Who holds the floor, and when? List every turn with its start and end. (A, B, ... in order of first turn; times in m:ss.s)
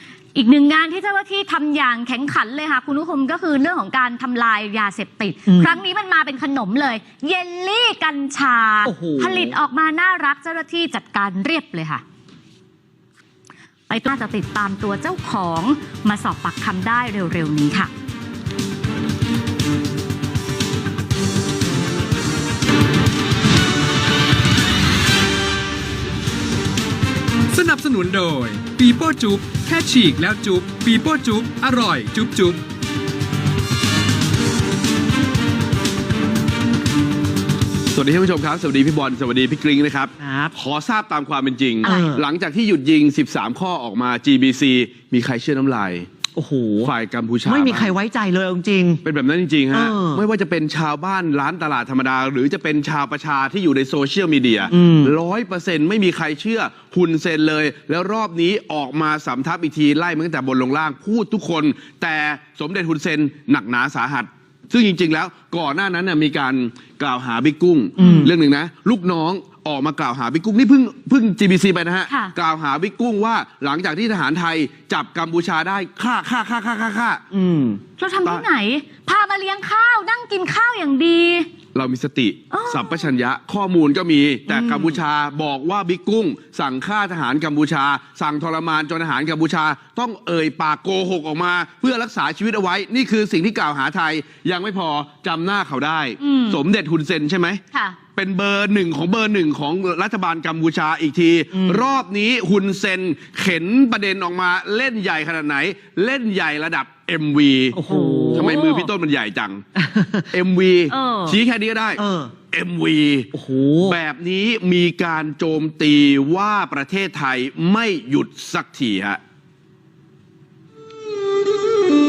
0:00.3-0:12.0 A
0:05.5-0:05.8 B
0:08.8-0:09.6 B
0:13.9-0:17.9 A
0:27.5-0:32.6 C
0:37.9-0:46.1 D
0:40.2-0:40.6 B
0:41.8-0:42.2 B
0:41.8-0:42.1 A
0:46.3-0:46.9 B
0:46.8-0:47.9 D
0:47.4-0:49.0 B
0:49.0-1:17.2 D
0:49.7-0:50.2 B
0:54.7-0:55.1 B
1:08.0-1:08.3 A
1:08.0-1:08.3 B
1:12.1-1:12.3 A
1:17.3-1:17.8 B
1:18.0-1:21.5 A
1:21.7-1:37.6 D
1:22.5-1:23.1 A
1:24.5-1:25.0 B
1:36.2-1:36.6 A
1:37.7-1:38.0 A
1:38.2-1:47.8 D
1:41.5-1:41.9 B
1:47.7-1:48.5 B
1:47.8-1:48.9 A
1:48.3-1:49.6 D
1:49.8-1:50.3 B
1:50.3-1:52.0 D
1:50.9-1:51.4 A
1:52.0-1:52.3 B
1:52.5-1:53.3 D
1:53.3-1:54.0 B
1:53.8-1:59.2 D